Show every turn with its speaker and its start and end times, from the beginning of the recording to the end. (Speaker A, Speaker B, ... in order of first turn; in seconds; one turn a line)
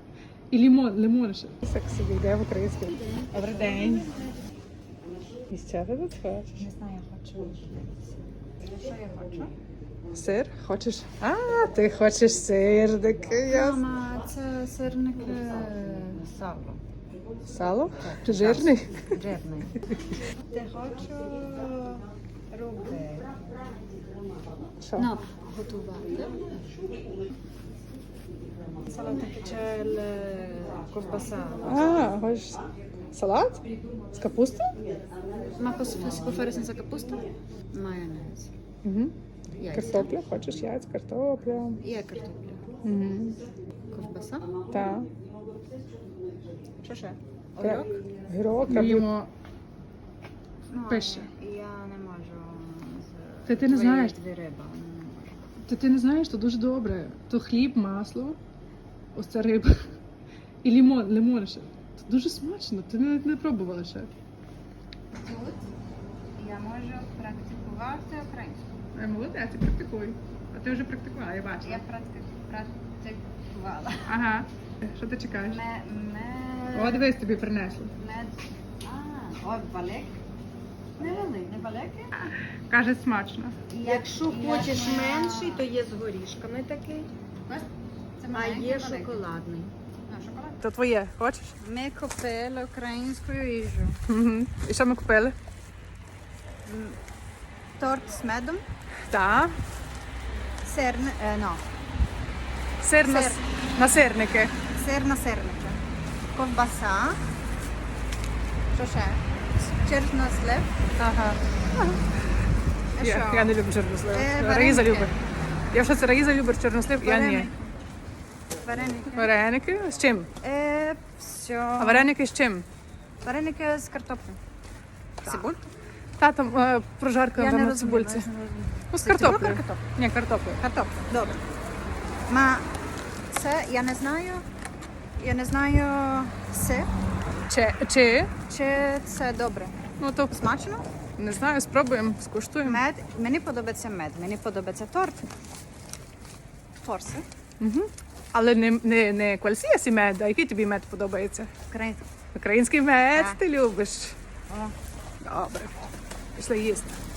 Speaker A: 0.5-4.2
Speaker B: 3.0-4.4
Speaker A: 5.5-6.7
Speaker B: 6.6-9.6
Speaker A: 10.1-13.8
Speaker B: 13.4-16.8
Speaker A: 17.5-19.1
Speaker B: 17.9-19.8
Speaker B: 20.5-23.6
Speaker A: 24.8-25.1
Speaker B: 25.0-26.5
Speaker B: 28.9-32.1
Speaker C: 29.0-29.7
Speaker A: 31.6-33.6
Speaker A: 34.1-34.7
Speaker B: 35.6-38.5
Speaker A: 38.8-39.1
Speaker B: 39.6-40.1
Speaker A: 39.7-41.8
Speaker B: 41.8-42.7
Speaker A: 42.8-43.4
Speaker B: 43.9-44.5
Speaker A: 44.7-45.1
Speaker B: 46.8-49.0
Speaker A: 47.6-49.3
Speaker B: 50.7-55.6
Speaker A: 50.9-51.3
Speaker A: 53.5-54.1
Speaker A: 55.6-58.4
Speaker A: 59.1-59.9
Speaker A: 60.6-64.1
Speaker B: 65.1-65.7
Speaker B: 66.3-68.7
Speaker A: 69.0-71.8
Speaker B: 71.6-74.2
Speaker A: 74.1-75.6
Speaker B: 75.4-77.2
Speaker A: 76.7-78.0
Speaker B: 78.0-80.2
Speaker B: 81.0-82.2
Speaker A: 82.7-83.6
Speaker B: 83.7-85.7
Speaker C: 83.8-87.1
Speaker B: 87.5-89.3
Speaker C: 88.3-89.7
Speaker B: 90.1-90.6
Speaker A: 90.6-91.5
Speaker B: 91.6-94.0
Speaker A: 94.1-95.4
Speaker B: 96.7-97.0
Speaker B: 97.8-98.7
Speaker A: 99.1-99.6
Speaker B: 100.6-101.6
Speaker A: 102.8-104.5
Speaker B: 103.0-103.5
Speaker B: 104.7-105.8
Speaker B: 106.3-107.2
Speaker B: 108.7-110.8
Speaker A: 111.0-111.4
Speaker B: 113.0-115.2
Speaker A: 113.0-115.2
Speaker A: 115.7-117.5
Speaker B: 117.0-117.7
Speaker B: 118.6-119.4
Speaker A: 119.2-120.3
Speaker B: 120.4-122.1
Speaker A: 121.8-122.7
Speaker B: 123.2-124.4
Speaker A: 125.2-125.6
Speaker B: 125.2-125.6
Speaker A: 126.2-128.3
Speaker B: 127.3-129.9
Speaker A: 128.9-130.6
Speaker B: 130.6-131.4
Speaker B: 132.3-132.7
Speaker B: 133.3-134.4
Speaker B: 135.2-136.9
Speaker A: 137.5-138.3
Speaker B: 138.5-139.8
Speaker A: 140.0-140.4
Speaker B: 140.3-140.9
Speaker A: 141.2-142.8
Speaker B: 142.6-145.2
Speaker B: 146.8-147.2
Speaker A: 147.6-151.5
Speaker B: 151.7-152.1
Speaker A: 152.3-154.2
Speaker B: 153.1-153.4
Speaker B: 154.5-154.8
Speaker A: 155.2-155.8
Speaker A: 156.4-157.0